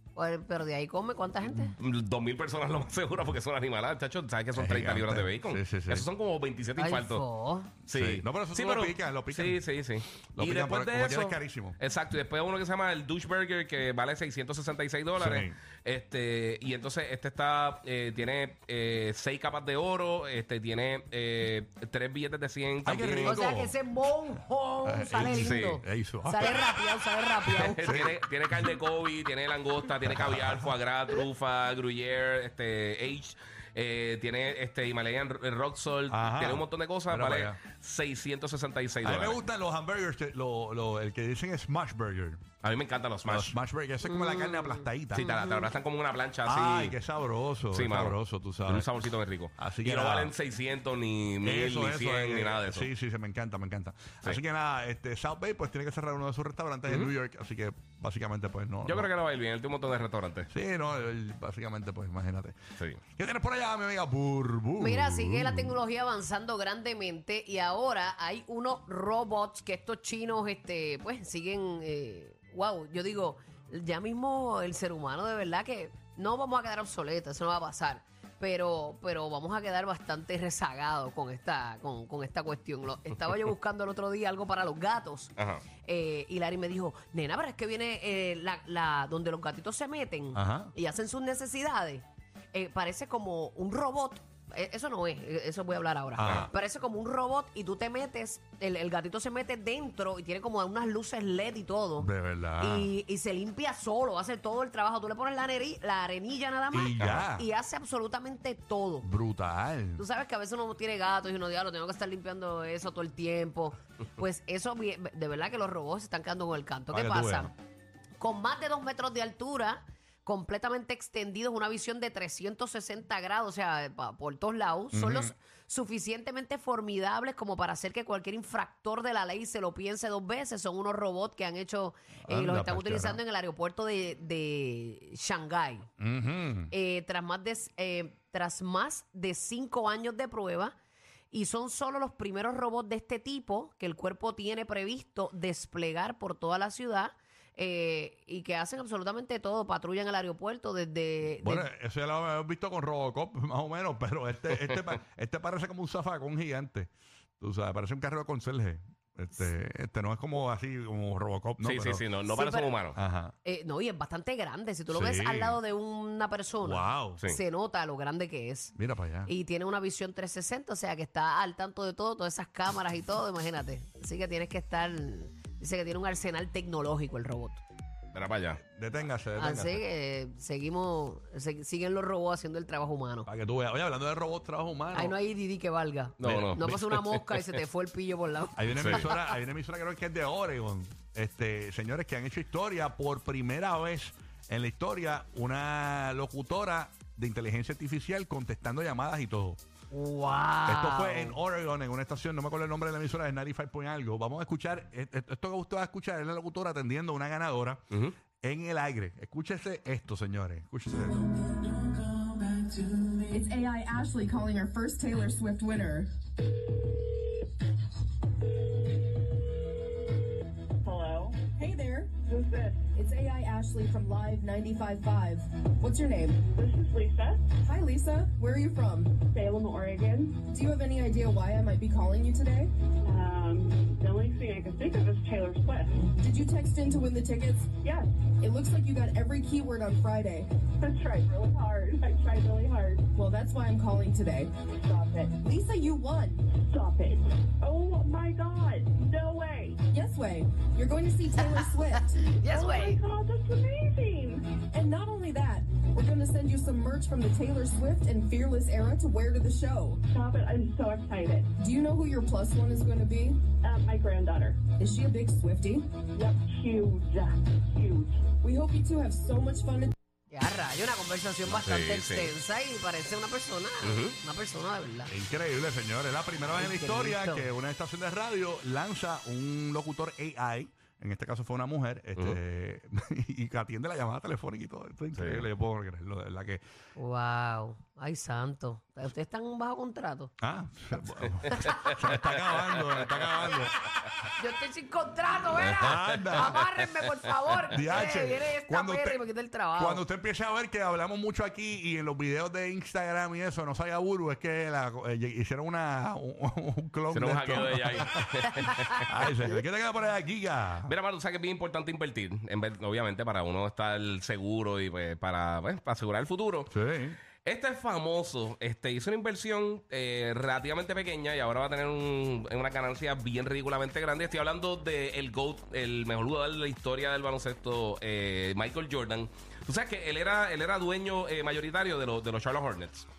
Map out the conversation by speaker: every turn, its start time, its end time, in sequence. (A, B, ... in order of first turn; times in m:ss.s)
0:00.1-0:01.7 A
0:01.5-0:07.2 B
0:04.5-0:06.1 C
0:06.8-0:07.7 A
0:07.8-0:23.4 B
0:07.9-0:09.6 C
0:10.4-0:11.8 C
0:15.2-0:15.5 C
0:22.8-0:23.8 C
0:23.2-0:28.1 A
0:24.8-0:26.6 C
0:25.4-0:25.8 B
0:27.5-0:39.4 B
0:27.8-0:28.7 C
0:30.1-0:30.7 C
0:36.1-0:37.6 C
0:39.0-0:42.5 C
0:42.6-0:43.6 B
0:43.2-0:45.3 C
0:44.0-0:45.7 A
0:45.1-0:47.0 B
0:46.4-0:48.9 C
0:47.7-0:52.9 B
0:49.6-0:50.3 C
0:51.4-0:59.1 C
0:56.9-0:57.1 B
0:58.8-1:00.5 B
1:00.5-1:02.6 C
1:03.1-1:05.8 C
1:04.8-1:49.1 A
1:25.4-1:25.6 B
1:30.3-1:30.7 C
1:36.2-1:36.5 C
1:42.0-1:42.9 C
1:46.7-1:47.4 C
1:49.0-1:50.0 C
1:50.0-1:57.5 A
1:56.9-1:57.5 C
1:58.2-2:15.9 A
2:04.9-2:05.3 C
2:12.3-2:13.2 C
2:16.0-2:16.7 C
2:16.7-2:20.7 A
2:21.3-2:31.7 A
2:31.4-2:42.0 C
2:34.5-2:34.8 B
2:41.6-2:43.0 B
2:42.3-2:42.7 A
2:42.9-2:43.3 C
2:43.4-2:48.7 A
2:44.9-2:45.6 C
2:46.6-2:47.2 C
2:48.8-2:49.3 C
2:49.2-2:57.6 A
2:58.1-2:58.6 B
2:58.7-2:59.8 C
2:59.4-3:03.3 A
3:03.3-3:05.1 C
3:04.9-3:09.1 A
3:06.2-3:07.2 B
3:06.2-3:06.6 C
3:08.6-3:19.6 C
3:08.7-3:09.0 B
3:19.9-3:21.4 A
3:20.6-3:27.8 C
3:28.4-3:31.3 C
3:33.3-3:36.1 D
3:40.8-3:41.5 E
3:41.5-3:42.2 D
3:42.2-3:42.8 E
3:42.9-3:46.5 D
3:46.5-3:47.5 E
3:47.6-3:49.3 D
3:49.3-3:50.3 E
3:50.4-3:52.7 D
3:53.0-3:56.1 E
3:56.2-3:57.7 D
3:57.8-3:58.1 E
3:58.4-4:00.5 D
4:00.8-4:03.0 E
4:03.1-4:04.5 D
4:04.8-4:05.4 E
4:05.4-4:06.6 D
4:06.6-4:09.8 E
4:09.9-4:12.2 D
4:11.4-4:13.0 A
4:12.4-4:14.5 E
4:14.7-4:20.0 D
4:20.1-4:21.5 E
4:21.6-4:23.4 D
4:23.6-4:24.6 E
4:24.8-4:25.8 D
4:26.2-4:28.2 E
4:28.4-4:29.9 D
4:30.3-4:35.1 A
4:31.5-4:32.3 B
4:33.8-4:34.2 B
4:35.1-4:46.6 C
4:36.5-4:37.5 A
4:45.1-4:45.5 B
4:47.0-4:50.3 A
4:50.4-4:53.7 C
4:51.5-4:51.9 A
4:51.6-4:53.0 B
4:54.4-5:00.0 A
4:55.6-4:56.6 B
4:55.8-4:56.6 C
4:57.7-4:59.2 C
4:59.8-5:10.9 C
5:07.1-5:09.1 B
5:10.8-5:16.7 B
5:16.7-5:17.2 C
5:17.4-5:33.1 B